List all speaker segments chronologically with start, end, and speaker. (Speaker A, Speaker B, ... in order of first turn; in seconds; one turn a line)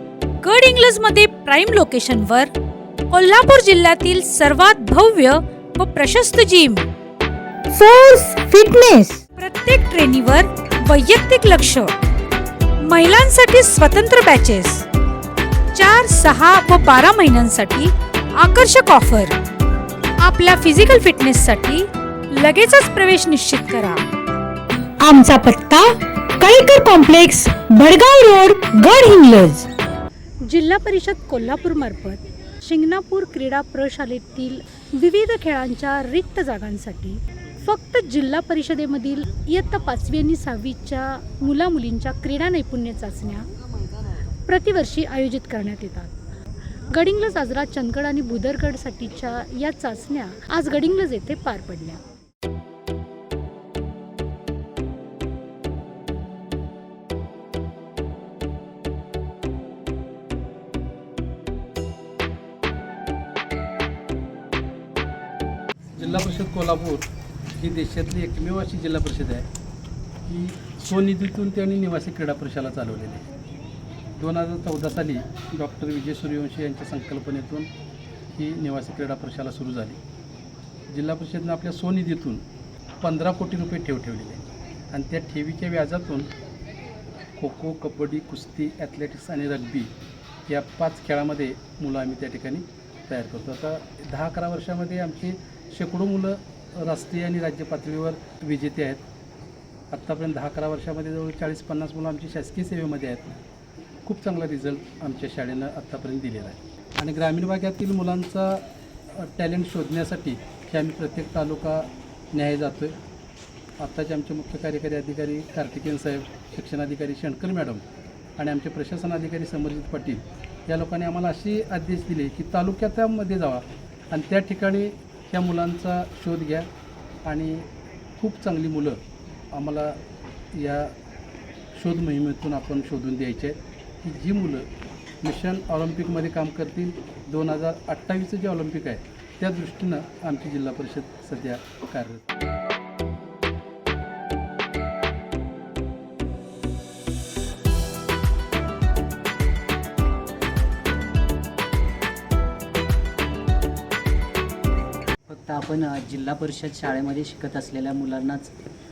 Speaker A: 0.4-2.5
Speaker A: 3.1-6.9
Speaker B: 7.7-9.2
Speaker A: 9.3-11.9
Speaker A: 12.8-14.8
Speaker A: 15.7-19.4
Speaker A: 20.2-24.0
Speaker B: 25.0-29.7
Speaker A: 30.4-43.5
Speaker A: 44.5-46.2
Speaker A: 46.9-52.0
Speaker C: 65.9-69.5
Speaker C: 70.2-73.2
Speaker C: 74.2-77.7
Speaker C: 78.3-80.0
Speaker C: 80.9-82.4
Speaker C: 83.0-84.4
Speaker C: 84.9-86.3
Speaker C: 87.4-89.9
Speaker C: 90.5-99.0
Speaker C: 99.9-103.3
Speaker C: 104.0-108.6
Speaker C: 109.1-113.0
Speaker C: 113.8-117.8
Speaker C: 118.4-126.7
Speaker C: 127.2-127.7
Speaker C: 128.2-129.0
Speaker C: 129.5-130.0
Speaker C: 130.5-130.9
Speaker C: 131.8-134.7
Speaker C: 135.2-142.2
Speaker D: 155.3-158.5